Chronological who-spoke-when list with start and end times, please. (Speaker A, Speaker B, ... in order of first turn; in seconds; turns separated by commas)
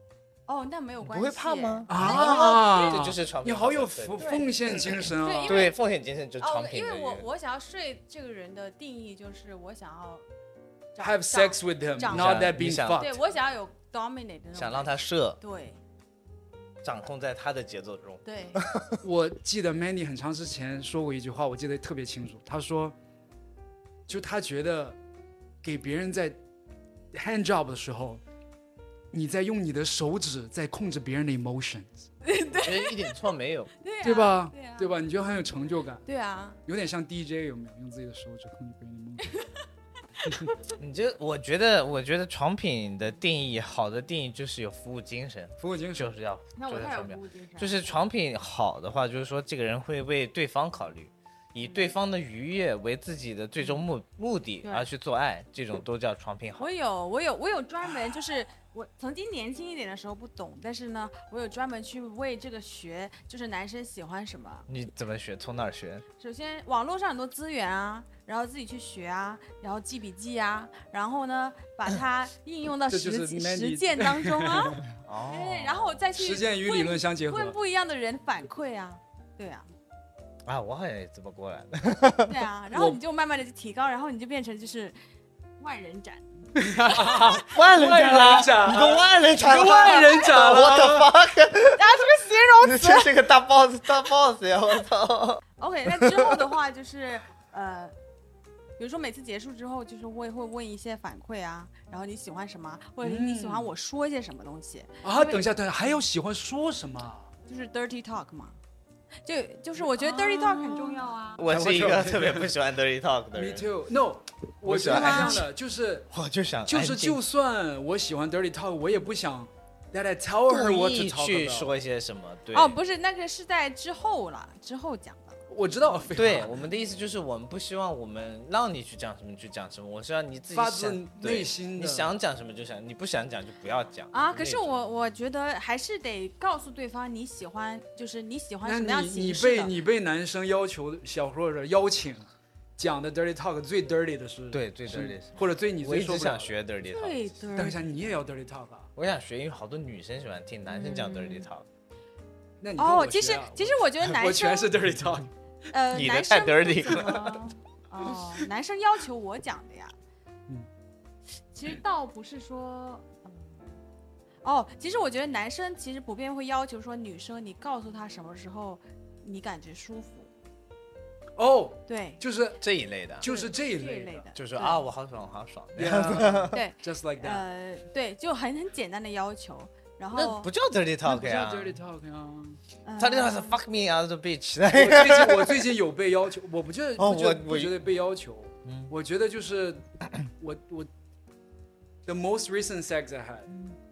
Speaker A: 0.5-3.1, Speaker B: 1.0-7.3, Speaker C: 1.9-5.7, Speaker A: 4.2-4.5, Speaker A: 5.1-5.7, Speaker A: 6.4-10.2, Speaker A: 10.9-15.8, Speaker C: 11.0-13.2, Speaker B: 12.1-13.1, Speaker B: 14.6-15.4, Speaker B: 16.8-19.0, Speaker A: 18.2-18.6, Speaker C: 19.0-22.9, Speaker C: 24.1-25.0, Speaker C: 25.6-26.4, Speaker C: 27.1-28.2, Speaker C: 29.1-32.0, Speaker A: 32.2-33.1, Speaker B: 32.5-33.7, Speaker A: 33.8-35.0, Speaker C: 34.0-36.0, Speaker A: 36.1-36.6, Speaker C: 36.7-39.3, Speaker A: 39.3-39.6, Speaker A: 40.2-40.6, Speaker B: 40.8-56.7, Speaker C: 45.6-46.1, Speaker A: 46.6-48.0, Speaker A: 54.6-54.9, Speaker A: 56.6-64.7, Speaker B: 64.7-66.0, Speaker A: 66.2-79.7, Speaker C: 72.9-74.8, Speaker B: 75.0-76.0, Speaker C: 76.2-77.6, Speaker B: 80.5-82.4, Speaker A: 82.2-85.0, Speaker C: 82.7-83.0, Speaker A: 85.6-88.4, Speaker C: 86.6-91.1, Speaker B: 87.4-92.0, Speaker A: 89.6-90.3, Speaker A: 91.8-93.1, Speaker B: 92.6-96.5, Speaker A: 95.6-98.0, Speaker A: 98.8-105.4, Speaker C: 103.0-103.7, Speaker C: 105.0-107.3, Speaker A: 107.5-108.6, Speaker A: 109.2-111.4, Speaker C: 109.8-112.5, Speaker B: 111.4-113.7, Speaker C: 113.3-116.1, Speaker B: 114.6-115.5, Speaker A: 114.8-115.5, Speaker B: 116.1-117.2, Speaker C: 116.7-121.7, Speaker B: 120.5-122.8, Speaker A: 122.5-125.4, Speaker C: 125.5-126.5, Speaker B: 126.2-134.8, Speaker C: 130.5-132.1, Speaker A: 134.1-139.8, Speaker C: 138.7-146.5, Speaker B: 144.5-147.2, Speaker A: 146.9-147.8, Speaker C: 147.6-148.9, Speaker B: 149.0-151.7, Speaker A: 150.7-151.5, Speaker C: 152.6-155.3, Speaker A: 152.8-154.7, Speaker A: 155.7-159.9, Speaker B: 155.9-157.4, Speaker A: 161.5-163.7, Speaker A: 164.4-170.3, Speaker C: 171.4-172.6, Speaker A: 171.9-172.2, Speaker B: 172.6-173.3, Speaker C: 173.2-174.2, Speaker A: 173.2-174.8, Speaker B: 174.3-176.6, Speaker C: 175.8-177.4, Speaker A: 176.5-180.5, Speaker B: 180.1-181.8, Speaker C: 181.1-182.6, Speaker A: 182.8-183.6, Speaker B: 183.0-185.7, Speaker C: 184.7-189.8, Speaker B: 187.0-187.8, Speaker B: 188.7-188.9, Speaker C: 190.4-190.9, Speaker C: 192.1-193.5, Speaker A: 193.5-193.8